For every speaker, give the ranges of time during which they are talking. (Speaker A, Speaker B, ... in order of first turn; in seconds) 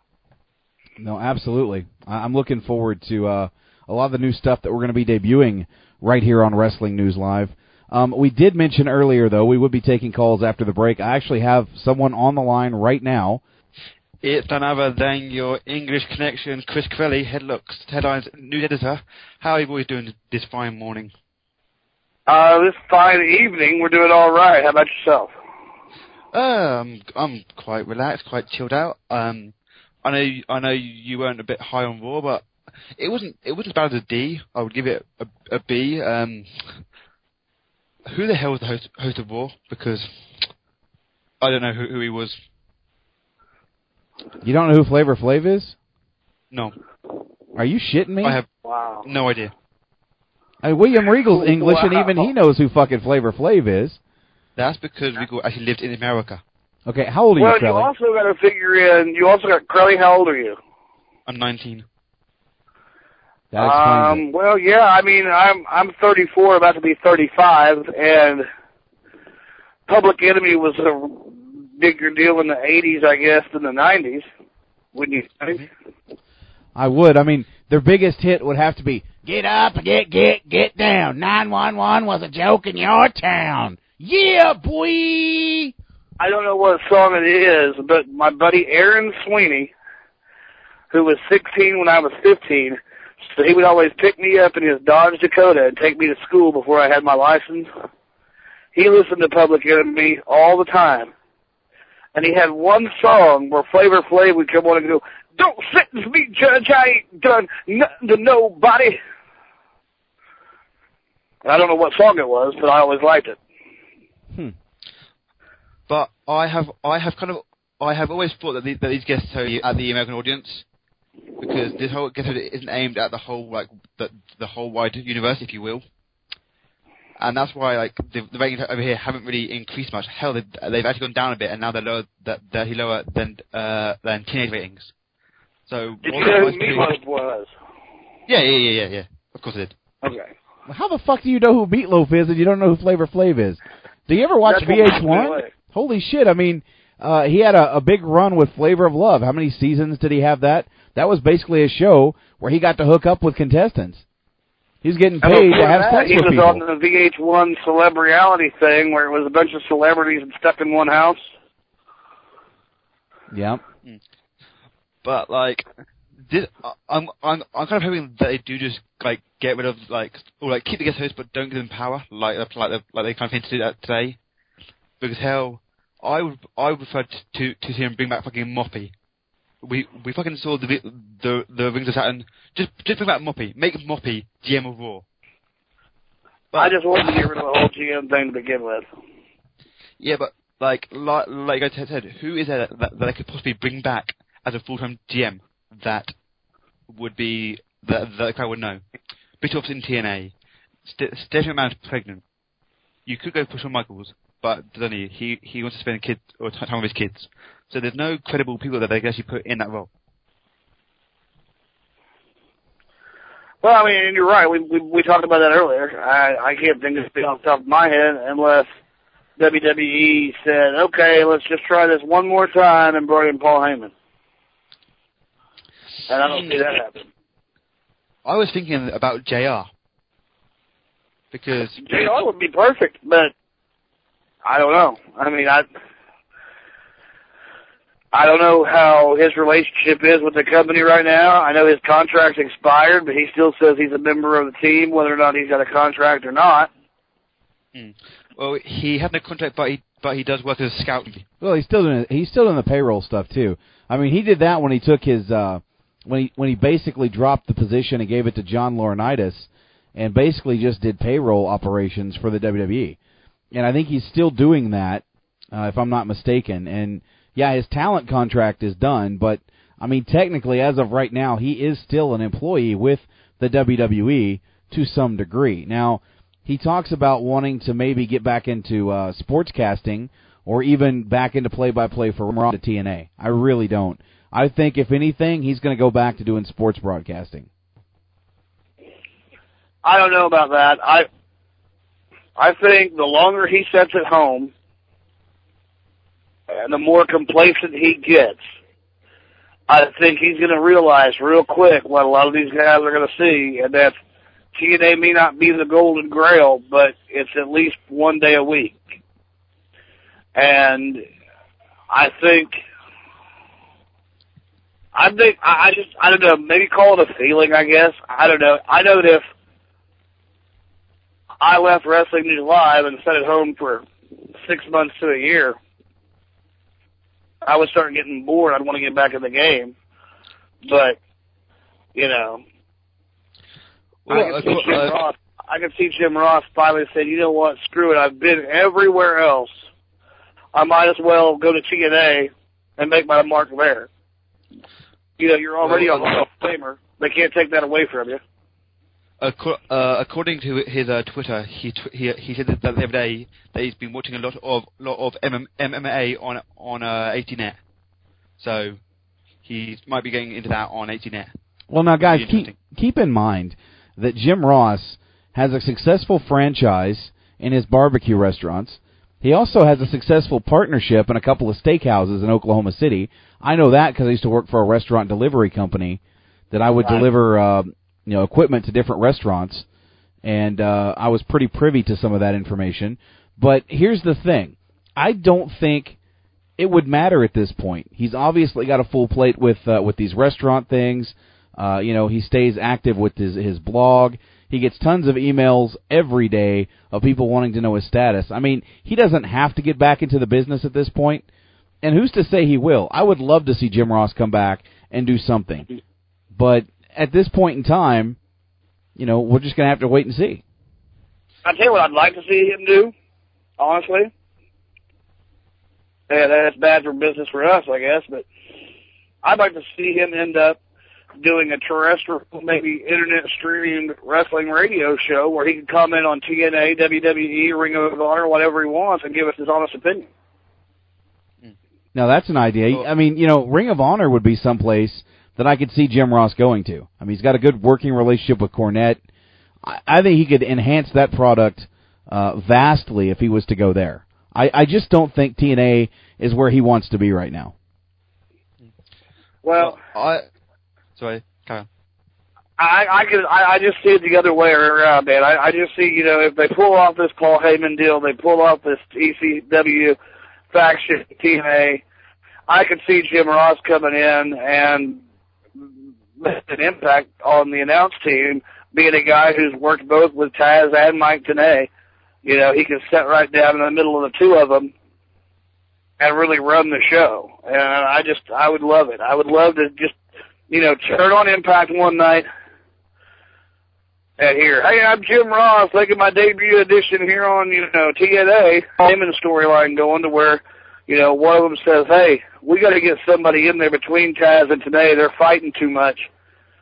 Speaker A: 1.0-13.4, 44.4-45.8, 47.5-48.4, 50.6-54.0, 56.9-57.9, 63.5-64.2, 76.8-85.7, 140.7-154.0, 154.8-156.6, 163.3-163.6, 251.4-263.0, 263.5-287.5, 361.7-379.7, 380.2-386.0, 386.6-401.2, 401.8-405.7, 406.3-408.2, 409.0-410.4, 431.9-439.0, 439.6-447.5
Speaker B: 14.2-21.1, 26.3-29.5, 30.1-32.5, 33.0-36.8, 38.1-40.1, 41.4-42.4, 48.2-48.5, 49.0-49.5, 54.6-56.4, 61.3-61.9, 115.9-120.7, 121.4-125.8, 127.2-134.9, 135.7-137.0, 138.3-139.7, 165.1-165.7, 166.3-174.2, 175.0-178.9, 179.6-185.0, 190.0-196.1, 196.9-198.8, 199.4-200.3, 200.9-202.2, 203.1-209.9, 228.2-229.7, 231.3-231.8, 247.7-251.3, 334.1-335.0, 345.6-346.1, 349.2-357.6, 358.4-358.8, 359.4-361.3, 362.0-362.5, 449.5-450.2, 451.0-451.7
Speaker C: 22.3-25.3, 48.7-49.1, 51.3-52.3, 57.4-60.6, 63.6-68.5, 69.9-74.3, 75.0-75.6, 86.2-89.7, 90.9-92.8, 93.3-97.7, 98.8-101.1, 102.2-109.0, 111.5-113.4, 136.0-137.5, 140.0-140.3, 144.5-145.5, 155.2-161.3, 186.6-188.8, 213.6-218.7, 219.4-223.9, 226.1-227.1, 231.8-233.3, 234.4-235.7, 238.1-246.7, 289.8-291.1, 292.4-294.5, 296.5-298.4, 299.7-304.0, 304.6-308.8, 310.4-311.0, 311.9-312.6, 314.9-319.2, 321.4-323.9, 324.4-325.6, 327.5-329.7, 330.6-331.0, 331.9-332.4, 334.1-339.5, 340.6-343.9, 345.2-348.2, 376.8-377.1, 411.4-412.9, 413.6-414.1, 416.1-418.3, 419.2-420.6, 421.2-430.1, 449.4-449.8, 452.6-460.0, 460.5-461.8, 462.5-465.0, 466.2-471.7, 472.2-474.7, 476.0-480.0, 480.5-482.3, 484.2-496.1